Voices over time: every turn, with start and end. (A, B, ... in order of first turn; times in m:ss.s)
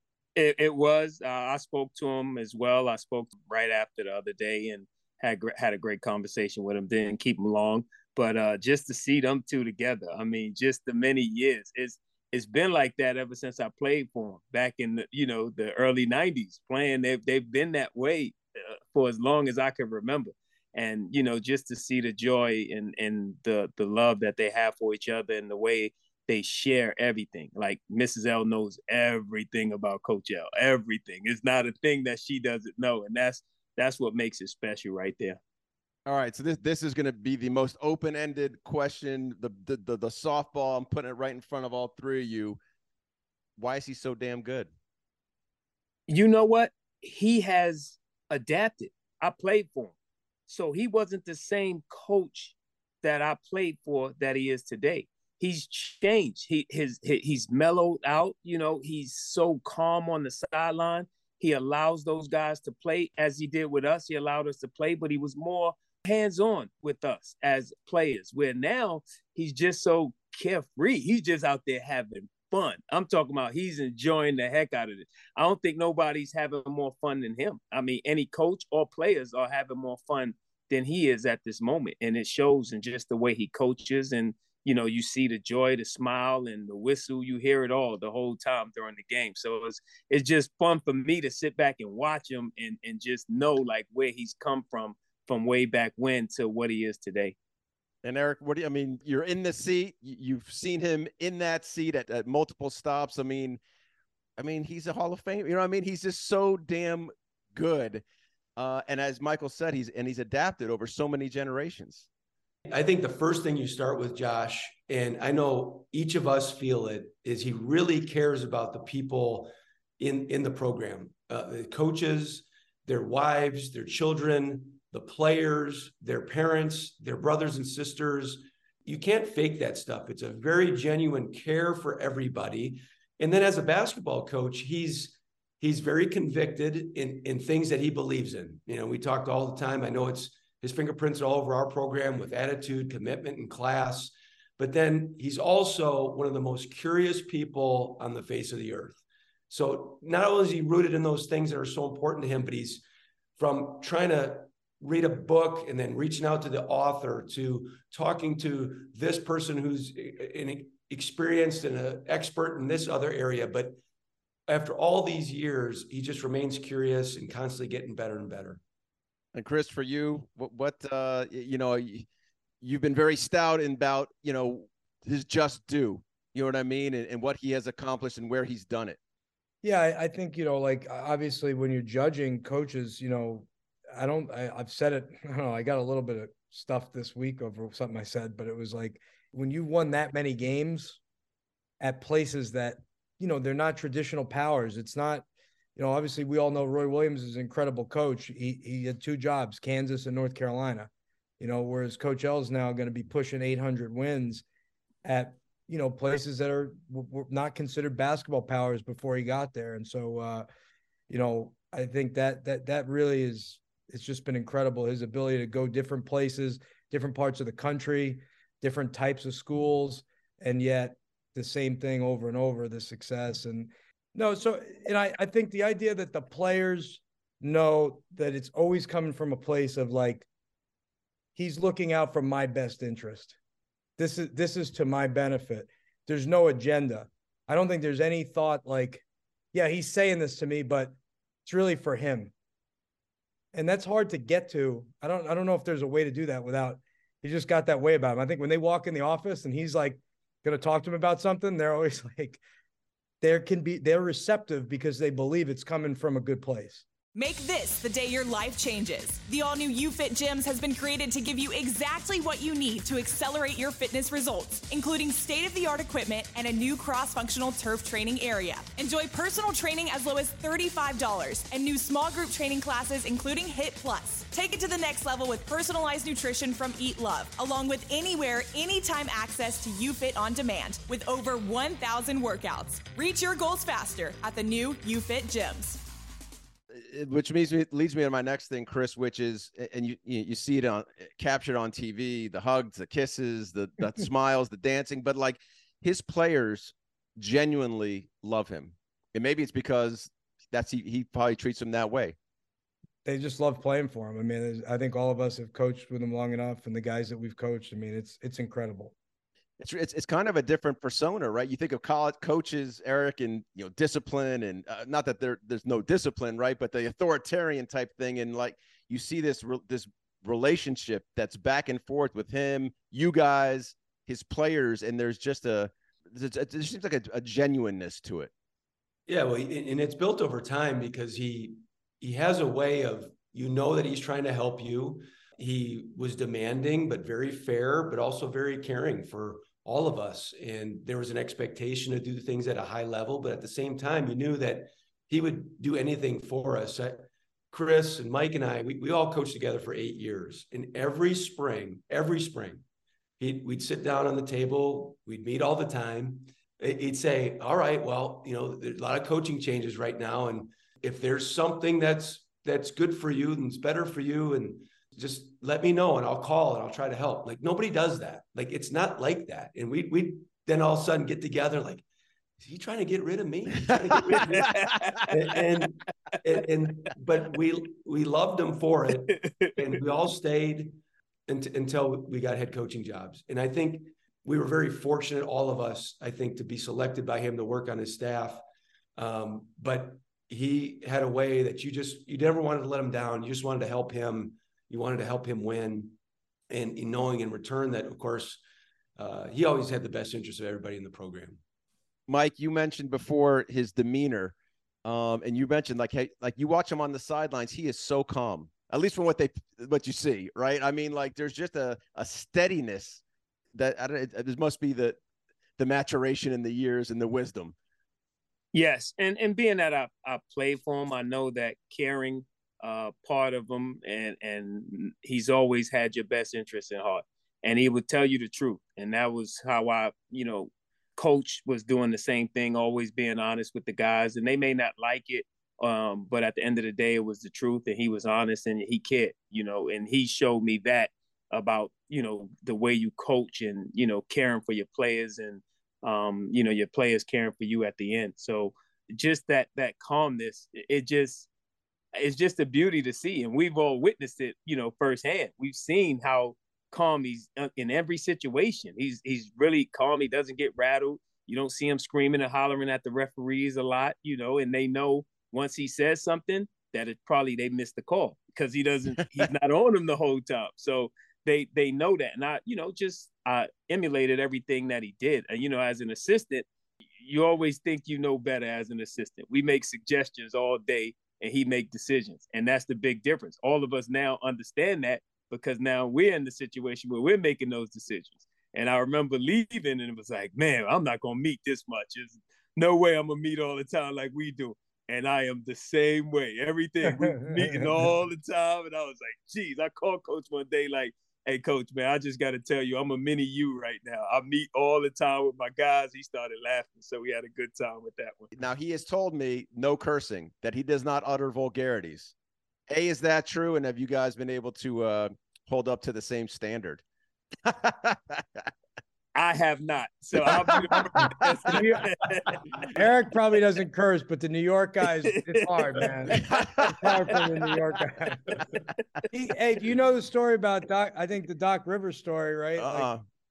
0:00.4-0:35.4 A
0:36.1-0:42.6 B
0:43.6-0:44.7 B
0:46.1-0:49.9 A
0:50.5-1:37.4 A
1:38.0-1:43.6 B
1:44.4-1:48.0 B
1:48.6-1:52.1 B
1:52.7-2:32.8 C
2:33.4-2:43.8 C
2:44.5-2:48.6 C
2:49.3-2:52.1 B
2:52.6-2:59.0 B
2:59.6-3:11.0 D
3:11.8-3:15.2 D
3:15.8-3:24.4 D
3:25.0-3:30.5 D
3:31.1-3:50.3 D
3:51.4-3:53.4 D
3:54.0-3:59.0 D
3:59.5-4:01.0 D
4:01.5-4:02.3 D
4:03.5-4:12.4 D
4:13.2-4:16.8 D
4:17.2-4:45.8 E
4:46.7-5:02.2 B
5:03.0-5:08.9 D
5:09.6-5:28.3 B
5:29.1-5:52.6 C
5:53.2-6:11.8 C
6:12.4-6:28.4 C
6:14.1-6:14.5 B
6:14.3-6:15.4 A
6:19.2-6:19.5 A
6:29.0-6:36.0 C
6:36.5-6:38.4 C
6:39.0-6:41.4 C
6:42.1-6:53.0 B
6:53.5-6:55.0 B
6:55.6-6:57.6 B
6:58.5-7:31.3 A
7:32.0-7:56.5 A
7:57.0-8:28.3 A
8:16.9-8:17.7 D
8:28.4-8:32.1 B
8:32.7-8:36.8 B
8:37.4-8:38.5 B
8:39.2-8:42.4 A
8:40.2-8:41.4 B
8:41.0-8:41.9 D
8:42.6-8:48.4 D
8:45.1-8:46.4 A
8:46.3-8:46.7 B
8:49.1-8:52.9 D
8:52.6-8:53.0 B